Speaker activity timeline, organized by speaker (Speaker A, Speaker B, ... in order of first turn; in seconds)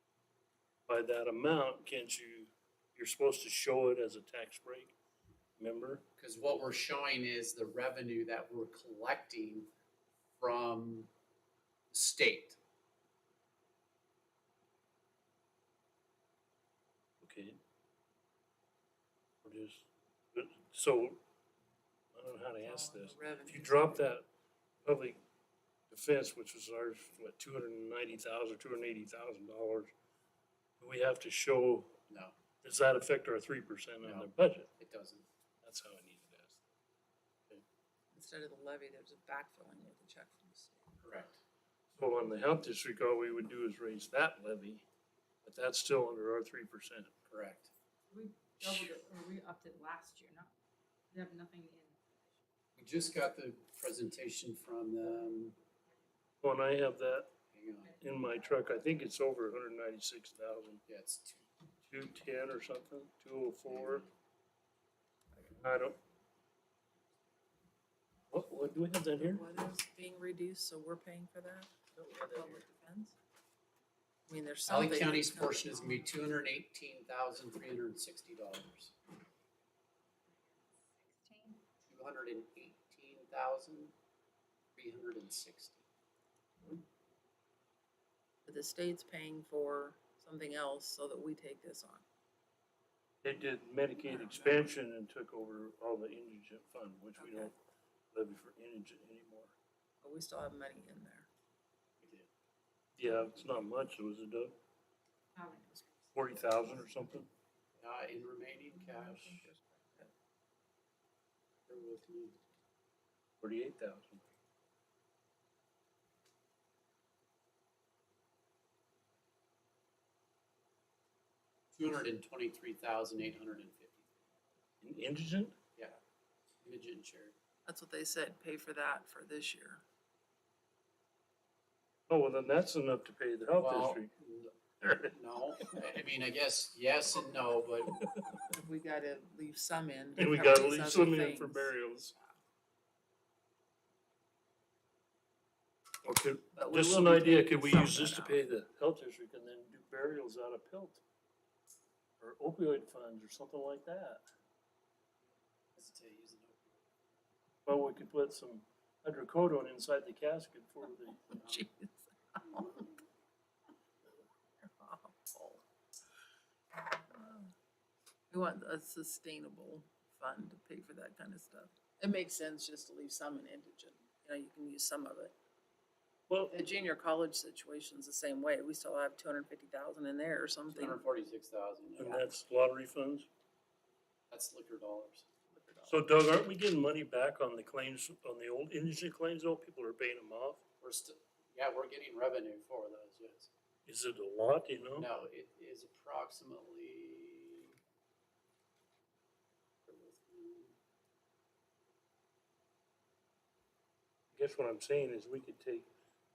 Speaker A: 0.9-4.9, 5.6-6.0, 17.2-17.6, 19.4-21.2, 22.1-24.3, 24.8-25.2, 25.9-29.9, 30.8-32.0, 32.6-34.7, 35.6-36.6, 41.9-44.8, 45.4-47.1, 48.6-48.9, 56.4-57.3, 58.0-60.8, 61.9-64.1, 65.5-66.0, 68.3-69.4, 93.2-97.5, 98.1-99.5, 103.0-104.5, 106.1-107.3, 113.4-114.2, 124.8-125.5, 132.1-134.1, 134.8-135.1, 138.0-138.3, 140.2-142.1, 146.0-151.0, 152.2-154.2, 157.7-161.3, 176.3-176.5, 182.0-183.3, 185.9-190.6, 193.8-195.1, 204.3-205.9
Speaker B: 6.2-9.7, 10.4-11.1, 11.9-12.6, 32.1-32.3, 34.0-35.2, 41.0-41.4, 47.3-47.7, 52.8-55.5, 57.5-58.0, 60.9-61.4, 71.9-72.6, 74.7-78.9, 81.9-83.9, 84.8-85.8, 102.0-102.3, 107.8-109.5, 111.7-112.4, 121.7-124.0, 126.6-127.3, 133.6-138.0, 155.7-156.8, 180.7-182.3, 184.3-185.2, 190.8-193.5, 195.0-197.7, 199.8-200.7
Speaker C: 22.6-24.0, 38.1-40.9, 69.1-73.1, 74.3-76.0, 88.5-92.0, 94.0-94.7, 97.2-97.5, 100.0-101.3, 105.3-106.5, 108.7-110.1, 127.7-129.8, 138.3-142.3, 146.5-148.4, 161.4-163.0, 164.6-165.6, 166.8-167.5, 168.3-175.3, 176.5-181.0, 185.5-186.0
Speaker D: 48.1-50.5, 51.1-52.4, 57.9-59.0, 80.8-81.6